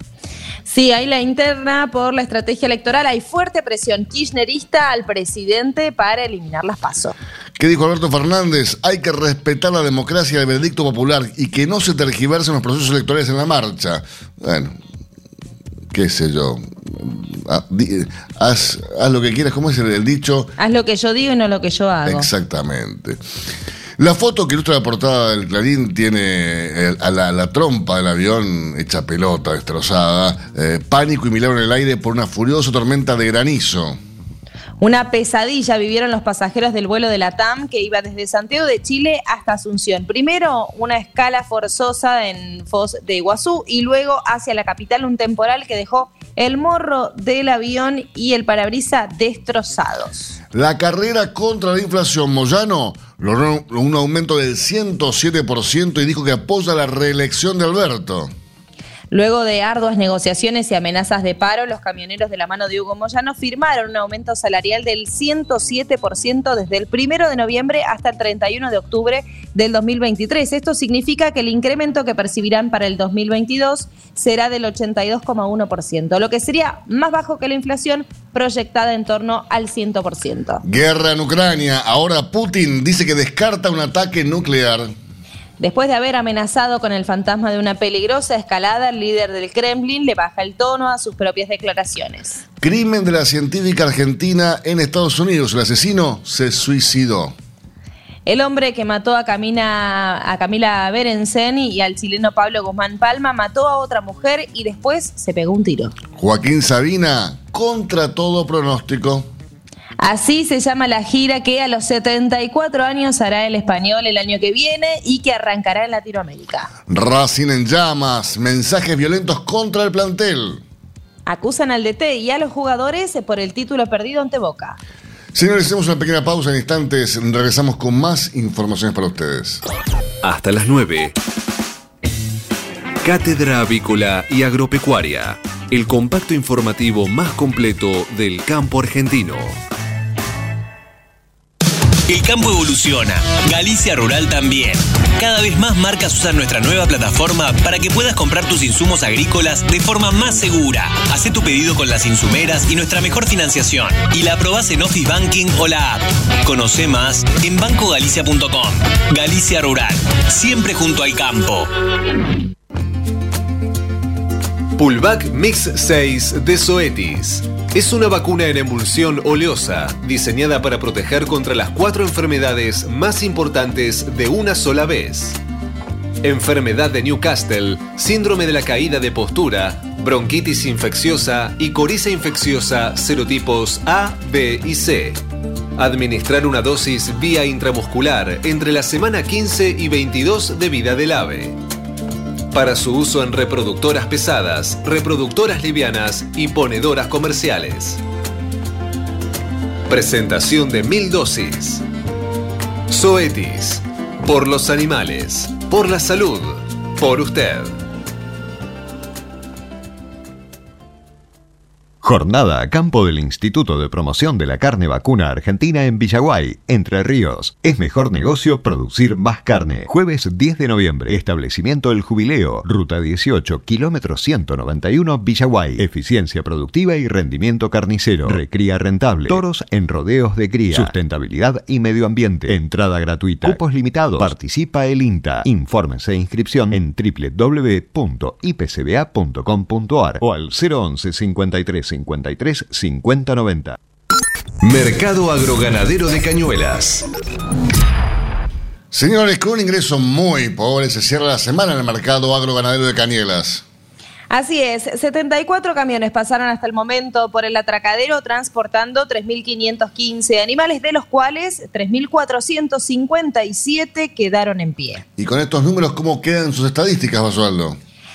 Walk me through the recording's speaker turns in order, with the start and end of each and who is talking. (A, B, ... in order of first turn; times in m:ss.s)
0:00.7-0:07.2 A
0:07.6-0:14.8 B
0:15.9-0:20.5 B
0:20.6-0:22.3 A
0:22.0-0:23.2 B
0:24.0-0:34.0 B
0:34.8-0:50.3 A
0:50.5-0:58.3 B
0:59.1-1:20.6 A
1:20.6-1:24.9 B
1:25.6-1:32.4 A
1:32.6-1:37.3 B
1:38.2-1:45.9 A
1:46.2-1:49.3 B
1:50.0-1:56.7 A
1:56.9-2:00.6 B
2:01.2-2:04.8 A
2:05.3-2:09.6 B
2:10.2-2:11.1 C
2:13.0-2:19.6 C
2:22.1-2:41.7 D
2:44.7-2:55.4 C
2:56.2-3:05.2 C
3:05.8-3:11.6 C
3:12.5-3:18.0 C
3:19.9-3:21.8 C
3:22.9-3:27.8 C
3:32.0-4:03.8 E
4:04.6-4:07.0 C
4:08.9-4:13.6 B
4:14.3-4:25.0 A
4:25.2-4:27.8 B